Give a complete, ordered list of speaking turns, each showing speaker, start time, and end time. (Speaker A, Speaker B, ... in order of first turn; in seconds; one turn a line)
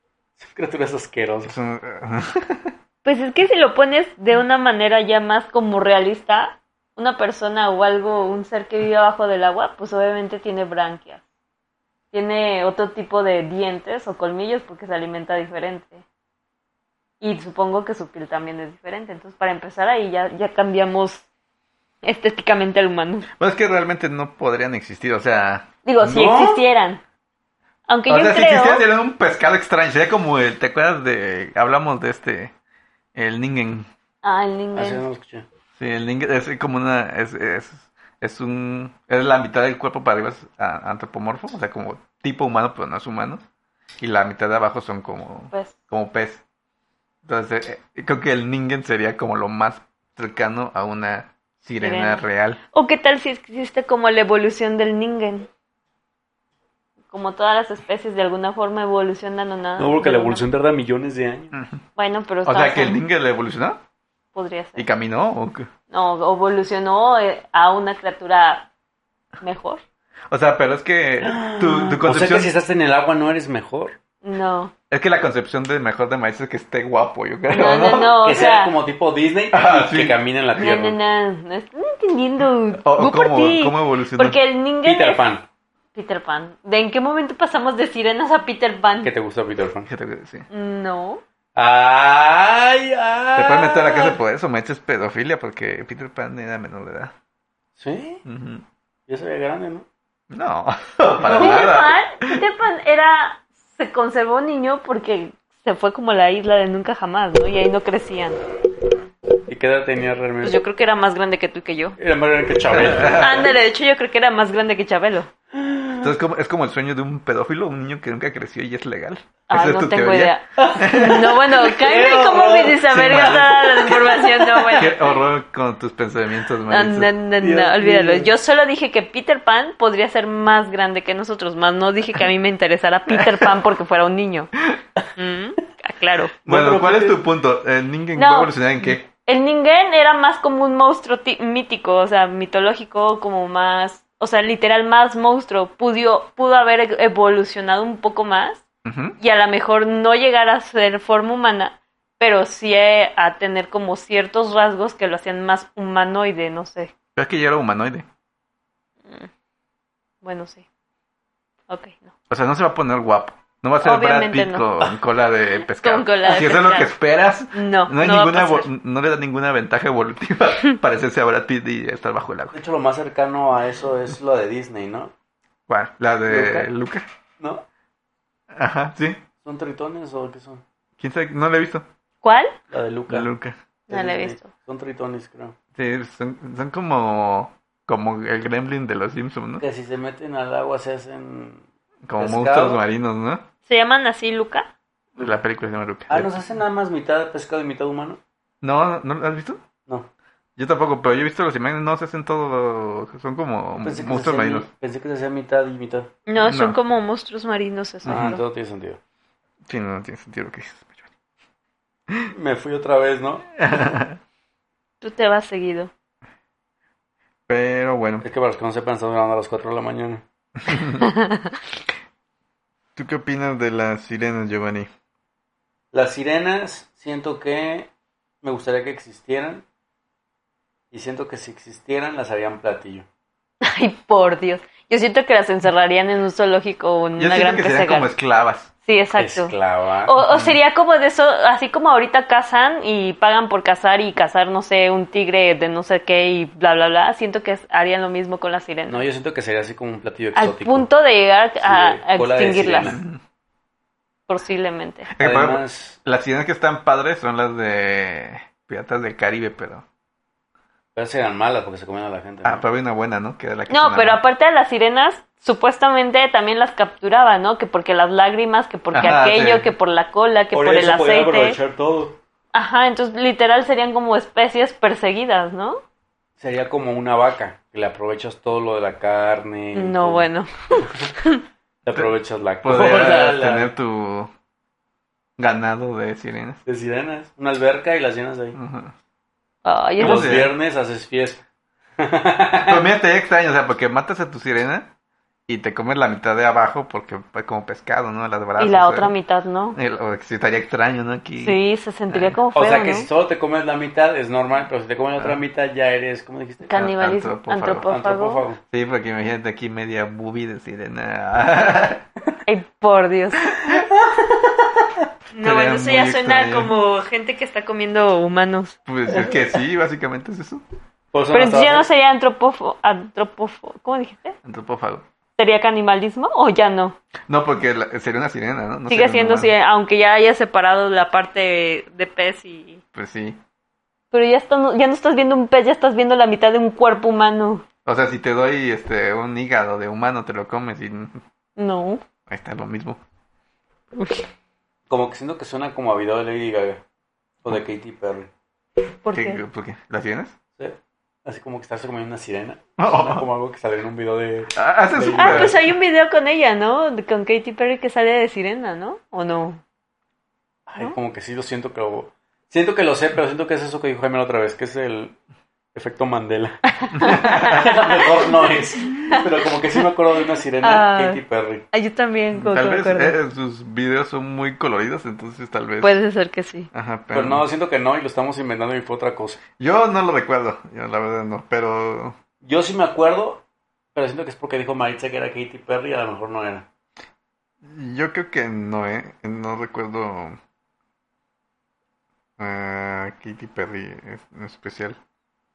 Speaker A: 0.4-1.6
Speaker B: 1.4-2.7
Speaker C: 3.0-11.2
Speaker C: 12.1-16.0
Speaker C: 17.2-21.3
Speaker C: 22.0-23.3
Speaker B: 23.4-25.7
Speaker C: 25.9-27.0
Speaker A: 26.0-26.6
Speaker C: 27.9-28.9
Speaker B: 28.1-32.5
Speaker B: 33.1-33.9
Speaker C: 34.2-35.0
Speaker A: 34.8-35.5
Speaker B: 35.8-43.4
Speaker B: 44.0-46.4
Speaker B: 47.2-52.6
Speaker C: 51.8-55.5
Speaker C: 57.1-60.4
Speaker A: 59.8-61.5
Speaker B: 61.5-61.8
Speaker C: 62.0-63.0
Speaker B: 62.5-63.8
Speaker C: 64.3-64.9
Speaker B: 64.8-65.7
Speaker C: 65.9-68.7
Speaker C: 69.4-69.8
Speaker B: 70.3-72.5
Speaker A: 71.2-74.0
Speaker C: 74.2-74.7
Speaker B: 74.9-78.2
Speaker C: 77.5-78.7
Speaker A: 78.2-81.0
Speaker B: 79.5-80.2
Speaker C: 80.6-85.2
Speaker B: 82.8-84.4
Speaker A: 84.8-85.5
Speaker C: 86.0-89.1
Speaker A: 89.0-89.9
Speaker B: 89.9-90.5
Speaker C: 90.5-91.2
Speaker A: 91.5-94.1
Speaker B: 93.3-97.1
Speaker A: 97.8-98.2
Speaker B: 98.2-98.6
Speaker A: 99.1-99.9
Speaker B: 100.3-102.4
Speaker A: 101.2-101.7
Speaker C: 101.3-108.4
Speaker A: 109.5-110.6
Speaker C: 110.4-112.0
Speaker A: 112.0-113.5
Speaker B: 112.7-113.5
Speaker C: 113.1-115.3
Speaker A: 115.5-116.1
Speaker B: 116.0-121.3
Speaker C: 119.5-125.1
Speaker A: 120.6-125.1
Speaker B: 122.9-123.8
Speaker B: 124.8-127.1
Speaker C: 126.7-134.5
Speaker A: 127.4-128.3
Speaker B: 133.1-133.4
Speaker C: 135.2-136.3
Speaker A: 136.4-137.2
Speaker B: 136.5-139.1
Speaker C: 138.1-148.6
Speaker B: 148.8-149.2
Speaker C: 149.2-156.9
Speaker B: 157.2-158.1
Speaker C: 160.2-160.6
Speaker C: 161.7-162.1
Speaker B: 162.3-172.6
Speaker C: 163.8-164.7
Speaker C: 165.7-166.9
Speaker C: 167.5-168.7
Speaker A: 172.5-175.1
Speaker B: 175.7-177.1
Speaker A: 176.3-176.7
Speaker B: 178.5-179.2
Speaker A: 179.4-180.6
Speaker B: 181.0-181.9
Speaker C: 182.2-182.6
Speaker A: 182.7-183.3
Speaker B: 183.1-183.6
Speaker C: 183.9-184.5
Speaker A: 183.9-185.6
Speaker B: 185.8-189.6
Speaker A: 189.6-191.6
Speaker B: 192.1-193.4
Speaker A: 192.2-192.8
Speaker C: 193.7-194.7
Speaker B: 195.2-196.3
Speaker A: 196.1-198.2
Speaker B: 198.6-199.6
Speaker B: 200.6-204.7
Speaker A: 203.8-206.1
Speaker C: 206.3-208.4
Speaker B: 206.4-206.8
Speaker B: 208.1-208.4
Speaker A: 208.1-209.0
Speaker B: 209.7-211.1
Speaker A: 212.3-213.5
Speaker B: 213.6-214.2
Speaker C: 215.0-215.9
Speaker B: 217.5-218.3
Speaker A: 218.2-220.2
Speaker B: 220.6-221.1
Speaker C: 221.0-221.5
Speaker B: 223.0-224.9
Speaker A: 225.9-227.9
Speaker A: 228.4-229.6
Speaker A: 230.9-233.1
Speaker C: 233.6-238.1
Speaker B: 237.2-238.7
Speaker C: 238.8-239.6
Speaker A: 239.2-240.2
Speaker C: 240.1-249.0
Speaker B: 240.3-240.6
Speaker A: 248.9-250.9
Speaker C: 250.3-253.0
Speaker A: 251.6-253.0
Speaker B: 252.8-253.2
Speaker C: 254.3-255.1
Speaker B: 255.1-259.9
Speaker A: 255.2-256.0
Speaker A: 260.9-262.6
Speaker B: 262.4-264.2
Speaker C: 263.7-271.6
Speaker B: 268.9-269.7
Speaker A: 270.5-272.2
Speaker C: 272.5-275.8
Speaker A: 276.4-280.3
Speaker C: 279.7-281.4
Speaker A: 280.9-281.1
Speaker A: 281.8-283.7
Speaker B: 282.6-284.3
Speaker B: 285.4-286.6
Speaker A: 286.7-288.6
Speaker B: 288.6-288.9
Speaker C: 289.6-290.4
Speaker A: 290.0-291.4
Speaker B: 290.0-290.5
Speaker A: 292.0-292.9
Speaker B: 292.6-294.9
Speaker B: 295.5-299.1
Speaker C: 298.6-299.8
Speaker B: 299.7-301.6
Speaker C: 301.4-303.1
Speaker B: 302.1-302.4
Speaker A: 302.5-306.7
Speaker C: 306.7-308.4
Speaker B: 306.8-307.9
Speaker A: 307.9-308.6
Speaker B: 308.7-312.0
Speaker C: 312.5-313.5
Speaker A: 313.7-315.0
Speaker C: 315.3-318.8
Speaker B: 315.4-316.7
Speaker B: 318.9-320.6
Speaker A: 321.1-321.9
Speaker C: 321.3-324.4
Speaker B: 324.4-325.1
Speaker C: 325.4-327.0
Speaker B: 327.3-329.5
Speaker C: 328.9-332.8
Speaker B: 332.9-333.4
Speaker C: 334.1-337.6
Speaker B: 337.9-341.2
Speaker C: 341.6-342.0
Speaker B: 342.3-343.0
Speaker C: 343.9-344.3
Speaker A: 344.9-346.8
Speaker A: 347.4-348.3
Speaker C: 349.0-349.4
Speaker B: 349.1-350.4
Speaker A: 350.6-355.6
Speaker B: 352.8-353.2
Speaker B: 354.6-355.6
Speaker C: 355.1-359.6
Speaker A: 360.7-365.1
Speaker A: 365.7-371.7
Speaker C: 366.8-369.8
Speaker B: 366.9-367.8
Speaker C: 370.6-371.2
Speaker C: 371.7-373.2
Speaker B: 372.4-376.0
Speaker C: 375.8-376.7
Speaker B: 376.7-377.4
Speaker A: 377.1-379.4
Speaker B: 379.6-382.2
Speaker A: 382.4-383.4
Speaker A: 383.9-386.7
Speaker B: 387.6-390.4
Speaker B: 392.4-395.0